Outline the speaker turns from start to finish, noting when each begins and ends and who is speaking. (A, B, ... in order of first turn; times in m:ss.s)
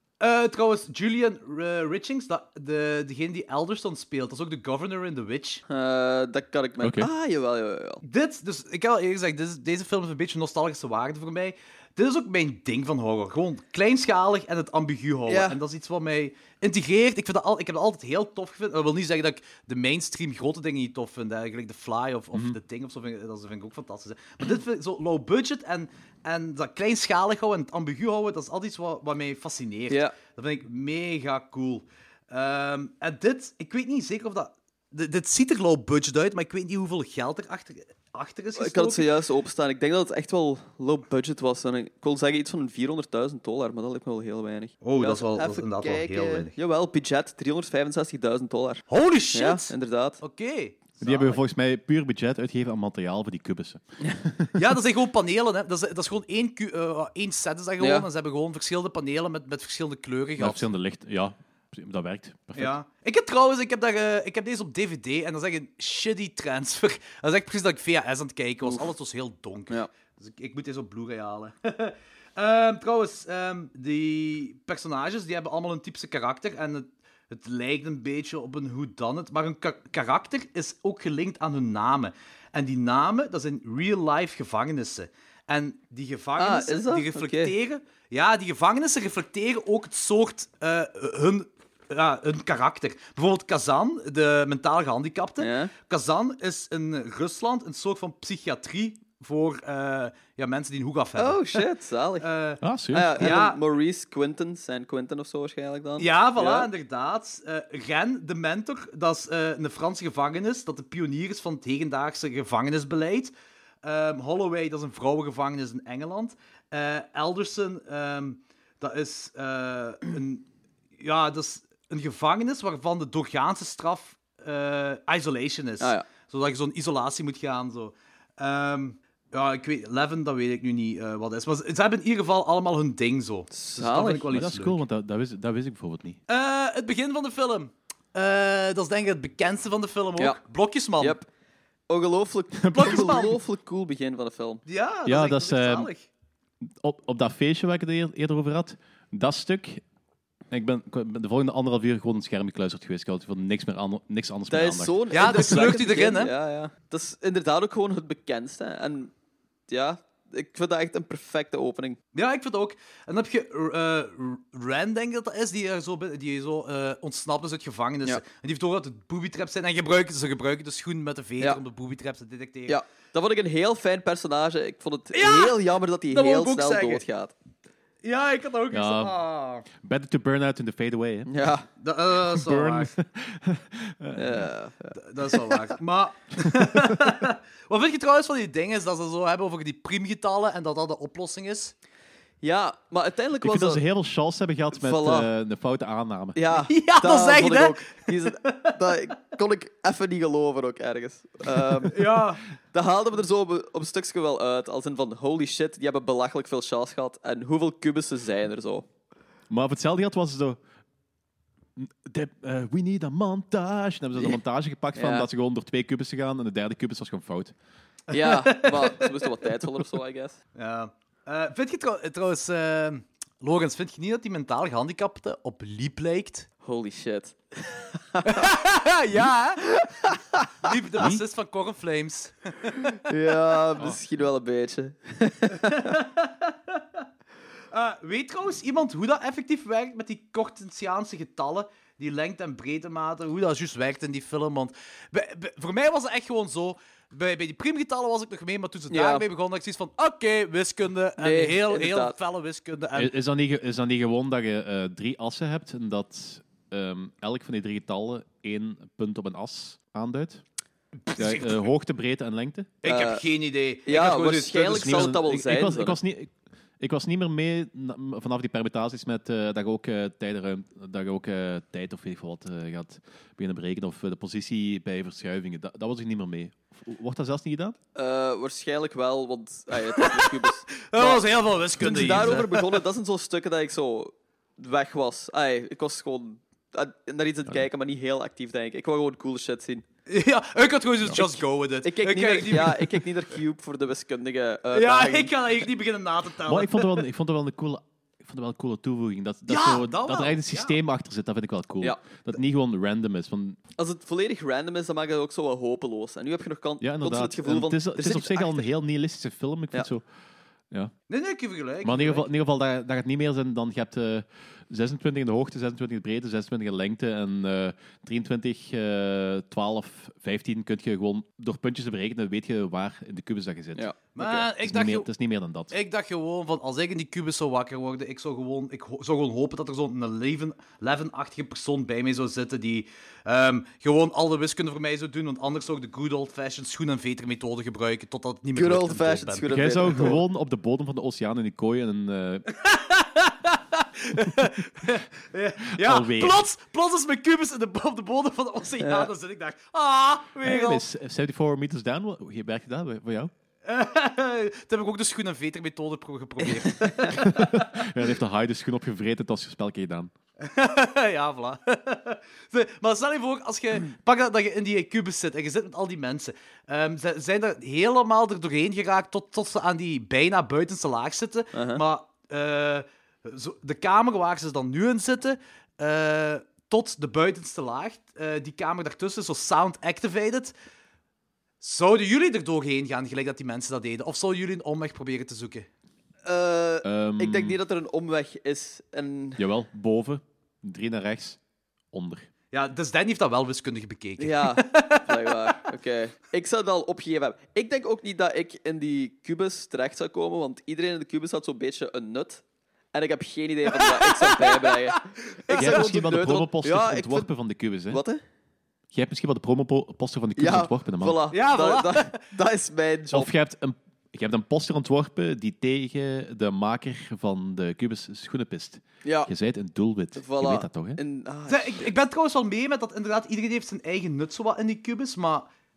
0:00.2-0:05.6 A
0:05.7-0:08.0 B
0:06.8-0:07.1 C
0:08.0-0:39.1 A
0:15.3-0:15.6 B
0:38.6-0:50.2 B
0:44.8-0:46.5 A
0:48.9-0:51.4 A
0:51.0-0:54.6 C
0:54.6-1:00.7 A
0:57.8-0:58.1 B
1:00.4-1:02.8 C
1:02.6-1:41.6 A
1:26.4-1:27.6 B
1:35.4-1:35.7 B
1:41.2-1:42.3 B
1:42.2-1:42.6 A
1:42.6-1:43.4 C
1:42.9-1:46.7 B
1:43.2-1:43.6 A
1:46.0-1:53.3 A
1:53.8-2:00.4 A
2:01.0-2:14.8 A
2:05.8-2:06.1 B
2:13.5-2:14.4 B
2:14.3-2:16.2 C
2:16.3-2:21.2 A
2:21.0-2:21.3 B
2:21.9-2:24.6 B
2:22.6-2:23.0 C
2:22.7-2:23.4 A
2:24.7-2:26.1 A
2:25.1-2:25.9 C
2:26.6-2:29.8 C
2:30.5-2:35.7 C
2:34.5-2:39.1 B
2:35.1-2:36.3 A
2:39.7-2:42.0 B
2:42.2-2:52.8 A
2:52.7-2:57.3 B
2:55.1-2:57.0 A
2:58.0-2:59.7 A
2:58.7-2:59.2 C
2:59.8-3:01.3 C
3:01.3-3:01.7 B
3:01.8-3:02.9 A
3:02.2-3:04.5 C
3:04.2-3:05.7 B
3:05.0-3:11.7 A
3:06.5-3:07.0 C
3:12.4-3:13.8 B
3:13.4-3:16.4 C
3:14.7-3:15.3 B
3:16.4-3:22.0 B
3:16.7-3:18.8 A
3:21.9-3:22.4 A
3:22.7-3:28.9 B
3:29.5-3:30.6 C
3:31.8-3:37.5 C
3:35.0-3:35.3 B
3:38.1-3:39.5 A
3:38.1-3:40.4 B
3:40.6-3:46.5 A
3:46.6-3:48.5 B
3:48.2-3:49.6 A
3:49.6-3:50.7 B
3:50.6-3:53.0 A
3:53.0-3:56.0 B
3:55.6-3:56.8 A
3:57.7-4:13.1 A
4:08.9-4:09.2 B
4:11.2-4:12.2 B
4:13.0-4:20.4 C
4:21.0-4:21.7 A
4:21.2-4:22.7 C
4:22.8-4:25.1 A
4:22.9-4:23.2 B
4:23.9-4:26.0 B
4:24.7-4:37.8 C
4:38.0-4:41.2 B
4:40.0-4:42.8 A
4:41.8-4:49.8 B
4:41.8-4:42.4 C
4:50.1-4:53.0 A
4:51.2-4:55.3 B
4:54.7-4:57.1 A
4:56.4-5:03.6 C
4:59.5-5:00.8 A
5:03.8-5:08.7 B
5:06.8-5:10.0 C
5:11.1-5:12.3 A
5:11.8-5:23.9 C
5:23.8-5:24.4 B
5:24.2-5:25.1 A
5:24.6-5:25.7 C
5:25.7-5:40.2 A
5:38.6-5:40.2 B
5:39.5-5:42.5 C
5:42.5-5:50.8 A
5:45.8-5:46.4 C
5:48.8-5:49.1 B
5:50.4-5:53.3 C
5:53.7-5:57.9 A
5:56.8-5:57.1 B
5:57.2-6:00.1 C
6:00.4-6:20.5 A
6:11.5-6:11.8 B
6:21.6-6:25.7 A
6:26.2-6:29.4 B
6:26.8-6:27.6 C
6:29.4-6:31.4 C
6:31.9-6:32.3 C
6:32.5-6:35.4 A
6:34.2-6:47.3 B
6:43.7-6:45.8 A
6:45.5-6:48.0 C
6:47.9-6:48.2 B
6:48.9-6:51.2 C
6:50.4-6:53.3 B
6:51.3-6:52.2 A
6:53.1-7:01.0 C
6:59.0-6:59.3 B
7:00.2-7:01.9 B
7:01.5-7:05.5 A